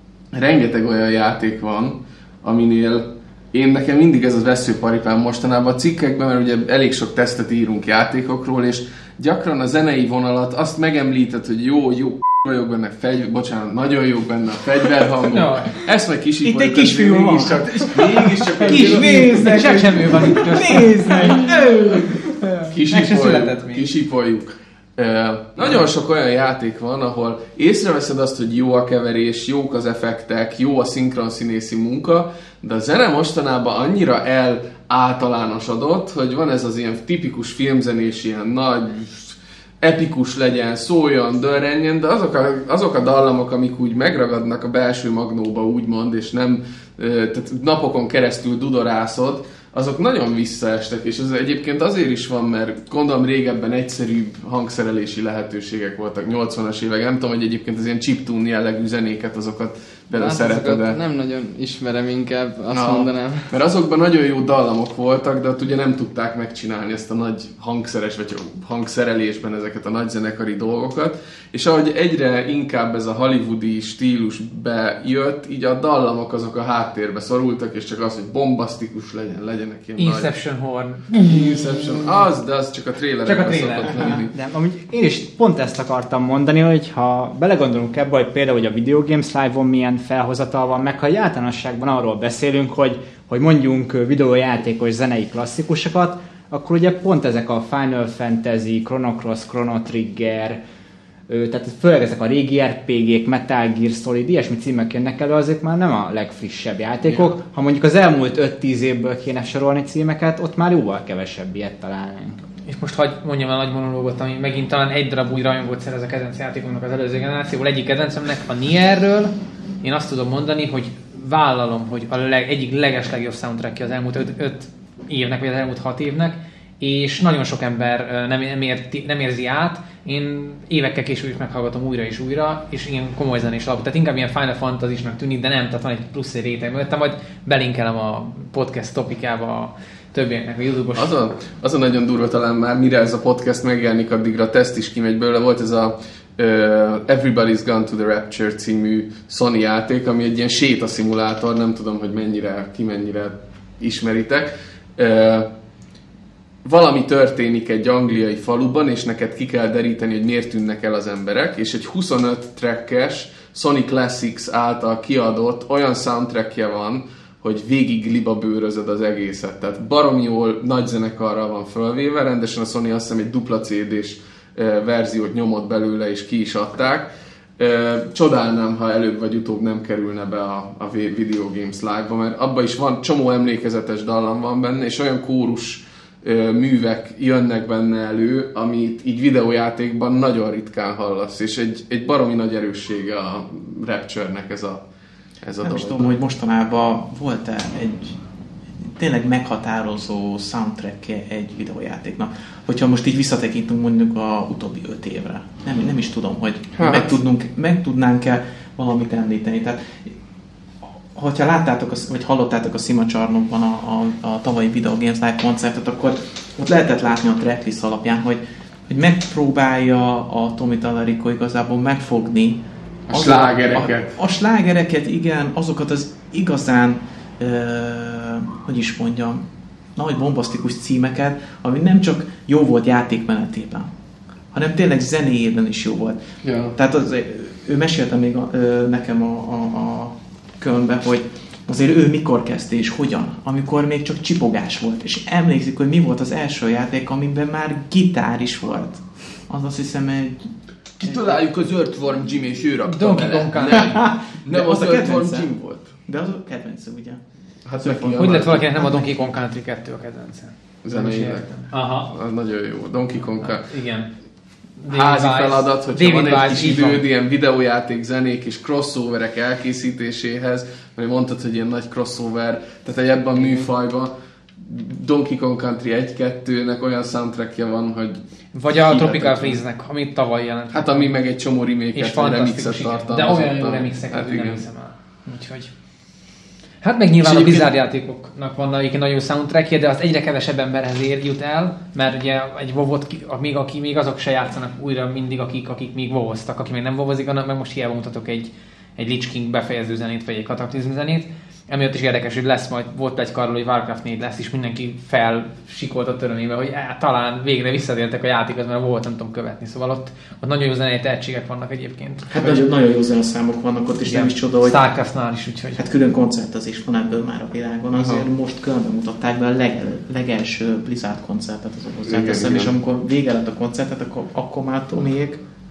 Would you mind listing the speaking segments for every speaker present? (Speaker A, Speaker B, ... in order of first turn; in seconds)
Speaker A: 0.3-19.2, 22.7-61.0, 62.7-80.3, 81.2-84.3, 107.0-107.3, 140.9-155.5, 156.6-194.8, 195.4-196.2, 206.8-207.2, 223.1-224.2, 236.4-236.7, 251.0-255.9, 257.6-258.6, 260.8-263.7, 264.9-279.6, 280.7-284.6, 287.2-287.6, 317.9-318.3, 322.0-322.7
Speaker B: 15.3-15.8, 18.6-21.5, 22.6-23.9, 80.0-82.0, 83.2-84.1, 112.6-141.1, 252.8-254.0, 258.2-262.1, 263.4-264.1, 264.8-267.0, 278.5-281.1, 281.9-285.7, 286.8-312.5, 314.1-315.8
Speaker C: 16.4-22.6, 195.6-198.2, 198.8-210.1, 211.1-229.4, 229.9-233.9, 234.5-236.2, 236.7-250.5, 251.0-251.4, 253.7-255.5, 256.1-257.2, 257.8-259.1, 312.3-314.8, 315.8-325.4
Speaker D: 60.1-63.5
Speaker E: 84.3-100.6, 101.3-112.4